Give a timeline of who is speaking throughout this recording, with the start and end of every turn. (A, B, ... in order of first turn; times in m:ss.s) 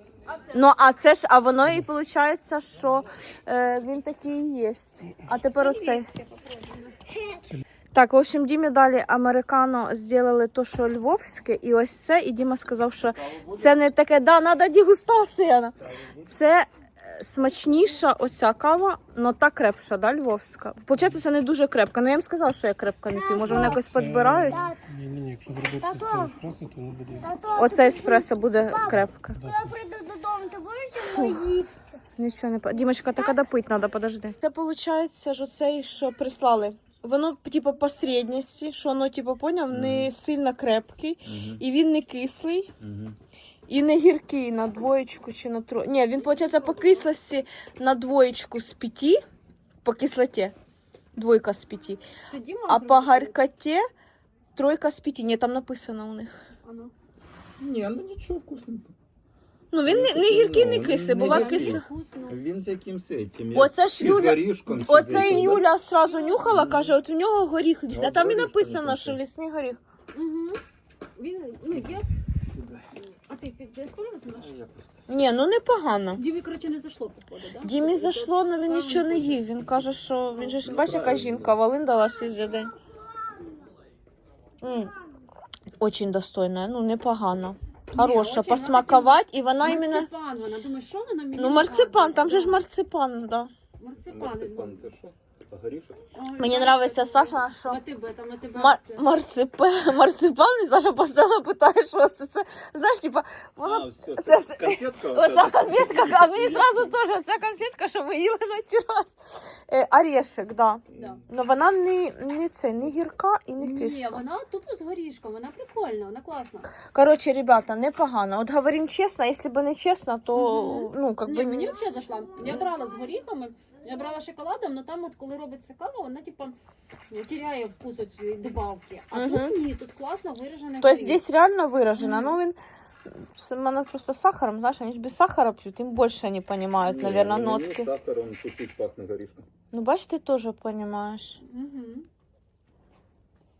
0:00.2-0:00.7 A
0:00.5-0:06.1 B
0:05.5-0:07.0 A
0:07.1-0:07.4 C
0:07.9-0:24.6 B
0:13.2-0:13.7 D
0:15.8-0:16.3 D
0:23.1-0:23.8 C
0:23.4-0:27.3 E
0:24.5-0:24.8 C
0:25.8-0:26.4 C
0:27.2-0:32.0 C
0:27.6-0:29.4 B
0:29.3-0:29.8 E
0:31.0-0:31.5 B
0:32.2-0:42.7 B
0:39.7-0:40.1 D
0:41.2-0:41.6 D
0:42.8-0:43.2 D
0:43.7-0:49.2 B
0:46.3-0:47.0 A
0:49.8-0:50.5 B
0:51.2-0:52.0 B
0:52.3-0:53.4 A
0:52.7-0:53.8 B
0:54.6-0:56.5 B
0:56.6-0:56.9 A
0:57.6-0:58.9 D
0:59.7-1:01.9 B
0:59.8-1:05.7 D
1:01.2-1:02.4 A
1:03.5-1:09.8 B
1:06.4-1:07.0 D
1:07.9-1:09.2 D
1:10.1-1:10.6 A
1:11.2-1:12.1 A
1:11.7-1:12.8 D
1:13.0-1:14.5 A
1:14.3-1:15.0 D
1:15.1-1:16.2 B
1:16.2-1:19.3 A
1:17.6-1:22.7 B
1:20.6-1:21.6 D
1:24.6-1:24.9 B
1:25.8-1:30.1 B
1:27.9-1:32.6 A
1:31.4-1:33.5 B
1:33.8-1:34.9 A
1:34.0-1:36.0 D
1:36.1-1:39.0 A
1:36.4-1:37.8 B
1:38.5-1:54.2 B
1:43.6-1:47.0 D
1:50.9-1:51.2 D
1:53.6-1:56.7 A
1:56.7-2:01.8 B
2:00.3-2:06.6 A
2:07.1-2:11.2 A
2:09.1-2:09.5 B
2:10.8-2:17.9 B
2:11.9-2:12.4 A
2:16.8-2:19.4 D
2:19.7-2:21.4 B
2:21.4-2:22.1 A